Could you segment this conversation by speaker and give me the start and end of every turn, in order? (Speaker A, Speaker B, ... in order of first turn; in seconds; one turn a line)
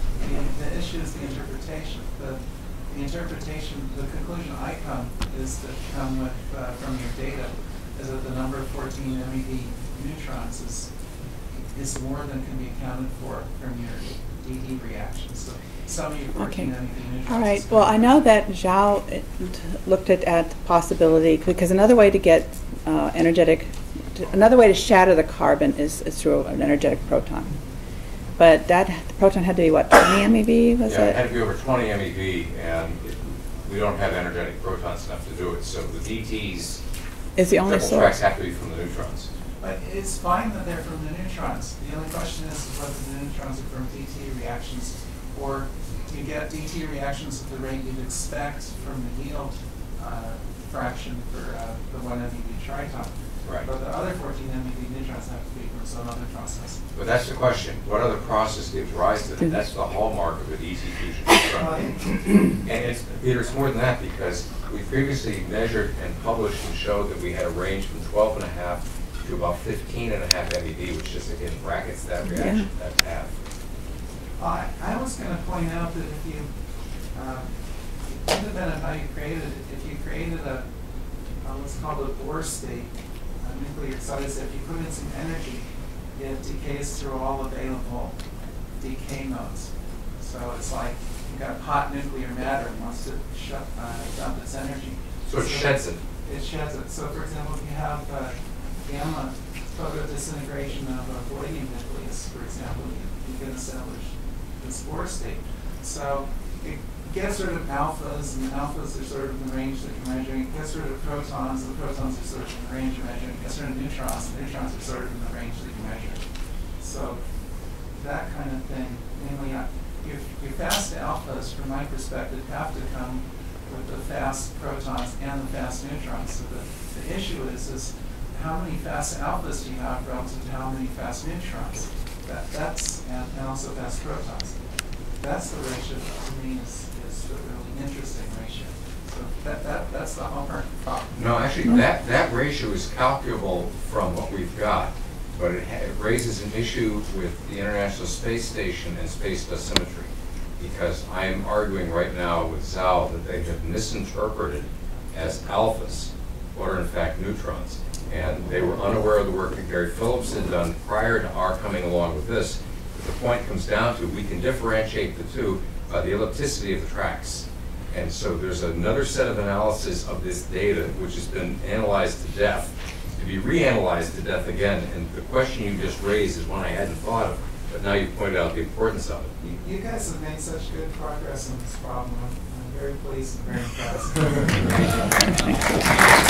Speaker A: 0.2-10.9
Speaker A: 11.7-18.2
Speaker B: 16.4-16.7
Speaker B: 17.3-27.5
Speaker B: 28.4-31.2
Speaker C: 30.9-36.8
Speaker B: 37.4-38.1
Speaker C: 37.6-39.3
Speaker A: 39.6-56.8
Speaker C: 56.9-73.3
Speaker A: 61.6-62.4
Speaker B: 72.3-72.7
Speaker A: 74.4-76.5
Speaker A: 77.1-77.5
Speaker A: 78.0-80.7
Speaker A: 81.4-88.1
Speaker A: 88.8-116.2
Speaker C: 95.3-96.0
Speaker A: 116.8-117.2
Speaker A: 117.9-134.6
Speaker A: 135.2-141.1
Speaker C: 141.1-179.6
Speaker A: 179.6-185.2